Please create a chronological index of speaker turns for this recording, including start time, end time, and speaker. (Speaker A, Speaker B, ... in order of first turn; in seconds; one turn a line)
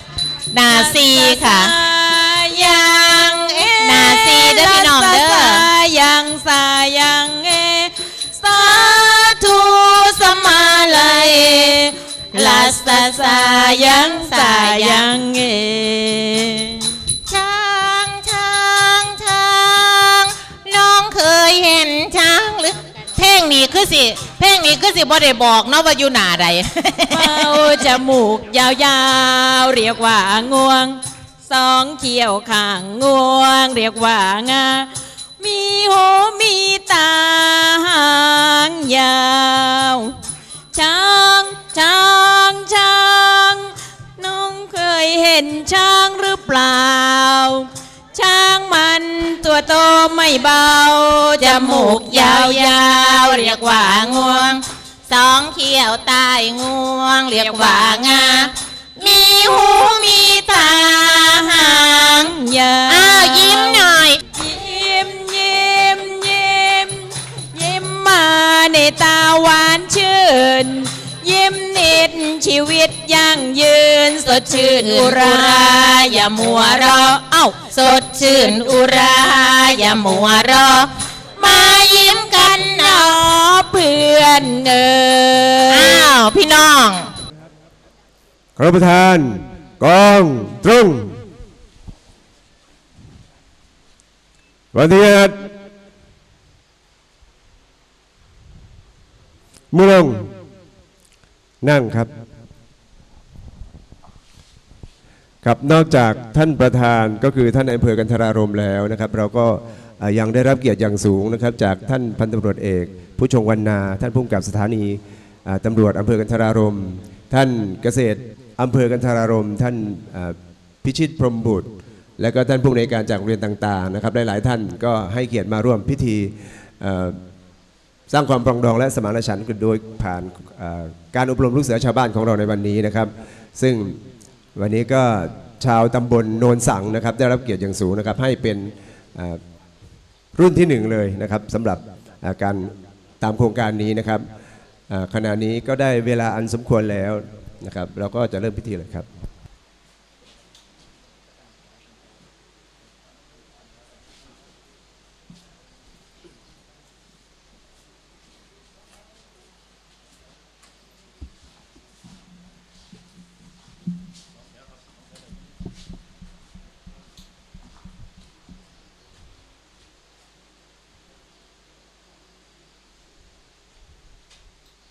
Speaker A: 0.5-1.7
Speaker B: 0.6-8.9
Speaker A: 2.7-5.7
Speaker A: 8.5-15.1
Speaker B: 12.3-16.9
Speaker A: 17.3-27.9
Speaker B: 27.1-40.1
Speaker B: 40.7-53.6
Speaker A: 51.4-62.3
Speaker B: 57.4-58.5
Speaker B: 62.0-77.2
Speaker A: 62.9-64.2
Speaker A: 74.4-83.5
Speaker B: 82.7-86.1
Speaker A: 85.7-87.1
Speaker C: 88.5-91.2
Speaker C: 94.7-95.5
Speaker C: 99.7-100.3
Speaker C: 101.6-102.1
Speaker C: 105.4-127.2
Speaker C: 128.1-134.0
Speaker C: 134.6-139.4
Speaker C: 140.3-144.2
Speaker C: 144.9-149.1